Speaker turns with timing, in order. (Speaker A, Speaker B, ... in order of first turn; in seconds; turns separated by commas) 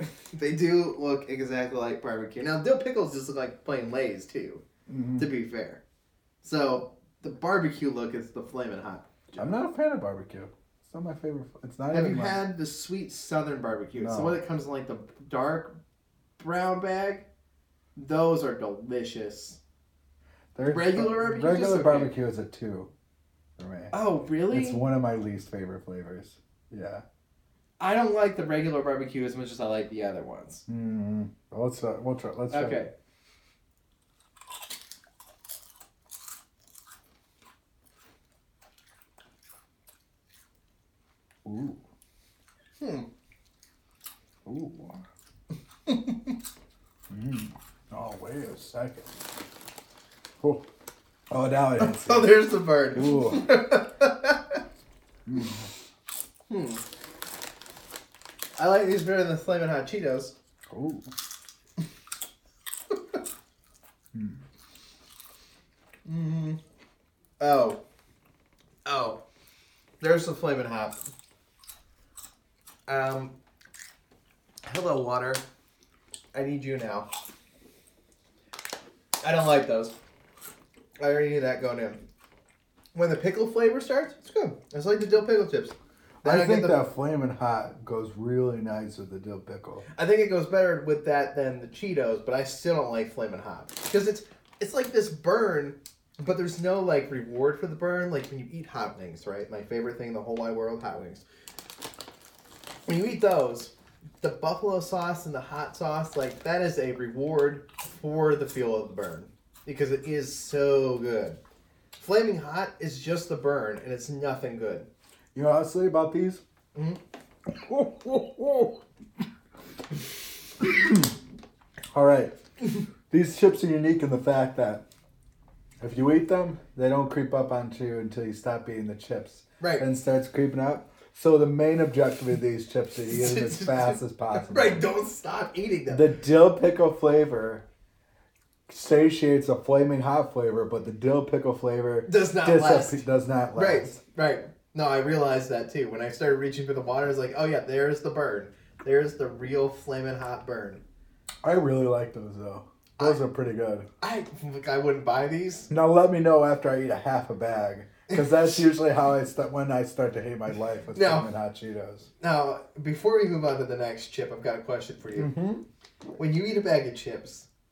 Speaker A: 0.3-4.6, Speaker B: 4.9-5.3, Speaker A: 5.2-5.8, Speaker A: 6.4-9.6, Speaker B: 9.4-12.4, Speaker A: 11.9-15.7, Speaker B: 13.9-14.4, Speaker A: 16.4-17.3, Speaker A: 17.9-19.6, Speaker B: 20.5-22.9, Speaker A: 20.6-22.1, Speaker B: 23.6-23.9, Speaker A: 23.9-24.8, Speaker B: 24.5-27.0, Speaker A: 27.8-30.6, Speaker B: 30.7-32.8, Speaker A: 32.5-32.9, Speaker B: 41.4-41.8, Speaker A: 42.8-43.1, Speaker B: 44.4-45.0, Speaker A: 45.9-46.3, Speaker B: 47.1-49.1, Speaker B: 51.3-53.5, Speaker A: 51.8-54.6, Speaker B: 55.2-55.7, Speaker A: 56.5-56.8, Speaker A: 58.6-60.3, Speaker B: 60.7-61.1, Speaker B: 64.1-64.4, Speaker A: 66.0-66.6, Speaker A: 67.4-67.8, Speaker A: 68.8-69.2, Speaker A: 70.0-71.0, Speaker A: 72.9-73.3, Speaker A: 74.6-75.4, Speaker A: 76.3-77.1, Speaker A: 79.2-79.9, Speaker A: 81.0-82.0, Speaker A: 82.9-86.8, Speaker B: 86.2-89.8, Speaker A: 89.9-101.2, Speaker A: 102.9-111.4, Speaker A: 112.0-114.9, Speaker B: 115.3-116.4, Speaker A: 116.7-117.0, Speaker B: 117.6-118.7, Speaker B: 120.6-121.1, Speaker B: 121.9-122.4, Speaker B: 123.1-124.8, Speaker B: 125.8-134.8, Speaker A: 129.6-129.9, Speaker A: 133.0-136.1, Speaker B: 135.9-137.6, Speaker B: 138.7-144.0, Speaker A: 142.1-143.0, Speaker A: 143.5-150.8, Speaker B: 151.4-153.9, Speaker A: 153.0-153.2, Speaker A: 154.0-155.7, Speaker B: 155.7-162.1, Speaker A: 158.1-158.6, Speaker A: 160.9-161.3, Speaker A: 162.2-165.3, Speaker B: 165.2-165.6, Speaker A: 166.2-167.5